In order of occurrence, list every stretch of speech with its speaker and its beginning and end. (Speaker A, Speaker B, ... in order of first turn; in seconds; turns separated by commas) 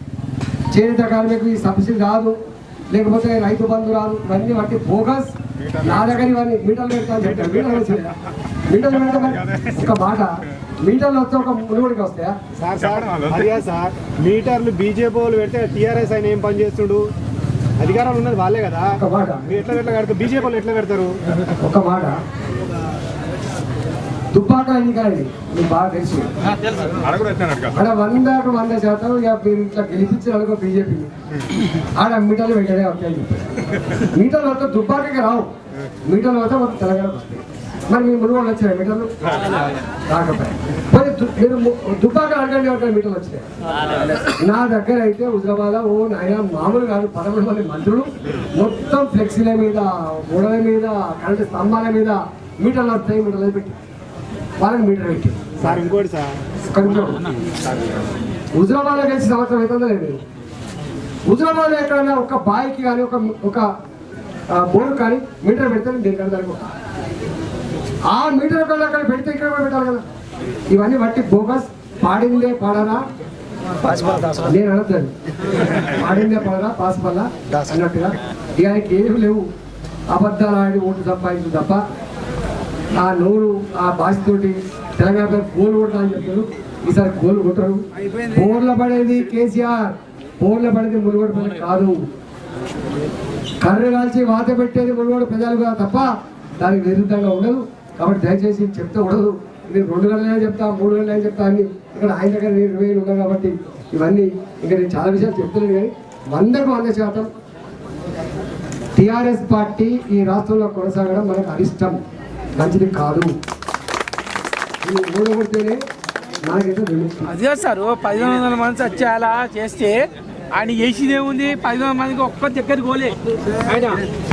Speaker A: 0.7-2.4, Speaker A: 2.9-8.1, Speaker A: 8.7-12.4, Speaker B: 12.6-17.1, Speaker B: 17.8-18.9, Speaker A: 19.0-19.6, Speaker B: 19.5-21.2, Speaker A: 21.6-22.2, Speaker A: 24.3-26.3, Speaker B: 27.1-27.6, Speaker A: 27.7-31.1, Speaker A: 32.0-35.5, Speaker A: 36.1-39.1, Speaker A: 40.1-43.5, Speaker A: 44.4-53.8, Speaker A: 54.6-55.5, Speaker B: 55.6-56.3, Speaker A: 56.7-57.3, Speaker A: 58.6-60.2, Speaker A: 61.3-63.7, Speaker A: 64.5-66.6, Speaker A: 68.1-70.0, Speaker A: 70.7-73.0, Speaker A: 74.2-75.1, Speaker A: 76.0-79.4, Speaker A: 80.1-81.8, Speaker A: 83.0-92.0, Speaker A: 93.6-107.3, Speaker A: 109.0-112.0, Speaker A: 112.6-113.4, Speaker A: 114.8-115.8, Speaker A: 116.5-117.3, Speaker C: 117.2-124.0